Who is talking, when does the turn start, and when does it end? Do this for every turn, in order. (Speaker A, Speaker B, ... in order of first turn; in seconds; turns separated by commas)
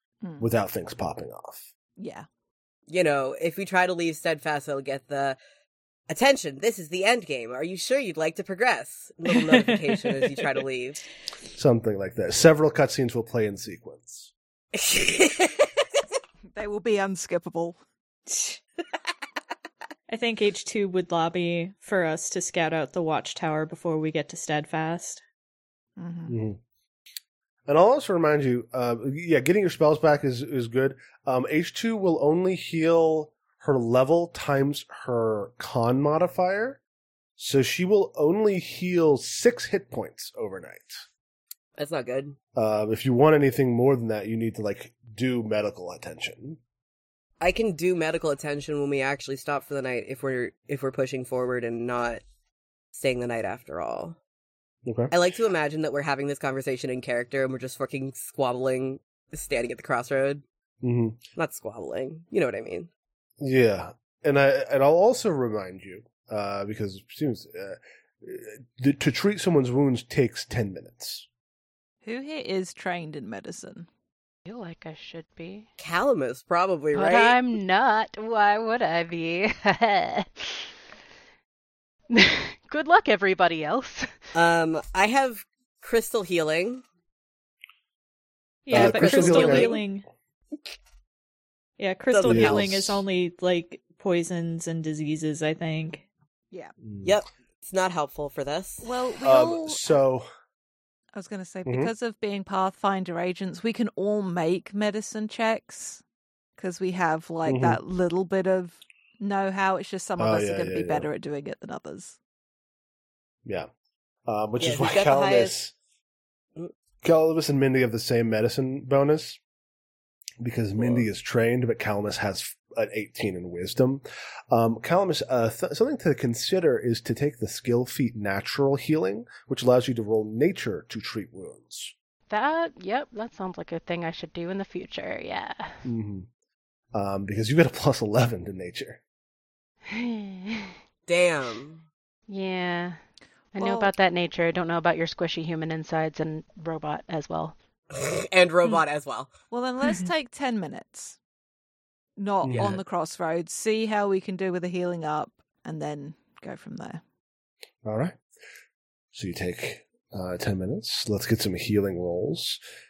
Speaker A: 0.4-1.7, Speaker B: 2.0-2.3, Speaker C: 2.9-5.4, Speaker C: 6.1-11.1, Speaker D: 9.4-10.1, Speaker A: 11.6-14.3, Speaker C: 14.7-15.9, Speaker B: 16.6-17.8, Speaker D: 18.3-18.6, Speaker D: 20.1-25.2, Speaker B: 26.0-26.4, Speaker A: 26.3-26.6, Speaker A: 27.7-36.8, Speaker A: 37.4-41.0, Speaker C: 41.8-42.4, Speaker A: 42.5-46.6, Speaker C: 47.4-52.2, Speaker C: 52.9-54.2, Speaker A: 54.9-55.1, Speaker C: 55.1-60.4, Speaker A: 60.8-61.2, Speaker C: 61.4-62.9, Speaker A: 63.4-71.3, Speaker B: 72.0-73.9, Speaker E: 74.5-75.7, Speaker C: 75.8-77.4, Speaker E: 76.9-80.7, Speaker E: 82.1-84.3, Speaker C: 84.3-86.8, Speaker D: 88.7-90.0, Speaker A: 88.7-89.8, Speaker C: 88.7-89.8, Speaker D: 91.8-96.0, Speaker C: 92.1-92.8, Speaker A: 92.3-93.0, Speaker A: 96.8-97.2, Speaker C: 97.0-98.9, Speaker B: 98.8-99.9, Speaker A: 99.2-100.3, Speaker B: 101.1-106.0, Speaker A: 101.7-101.9, Speaker B: 106.6-112.2, Speaker A: 107.5-107.8, Speaker A: 110.2-111.1, Speaker A: 114.3-115.7, Speaker C: 114.6-115.6, Speaker A: 117.0-119.4, Speaker A: 120.4-131.9, Speaker C: 120.8-121.1, Speaker E: 132.3-135.8, Speaker A: 135.8-136.3, Speaker A: 136.9-139.0, Speaker E: 139.9-140.7, Speaker C: 141.1-141.8, Speaker E: 142.3-143.0, Speaker E: 143.5-147.6, Speaker B: 143.6-143.9, Speaker C: 147.9-149.3, Speaker B: 149.5-151.2, Speaker B: 152.2-157.0, Speaker A: 152.4-152.8, Speaker A: 157.8-158.2, Speaker A: 159.1-162.6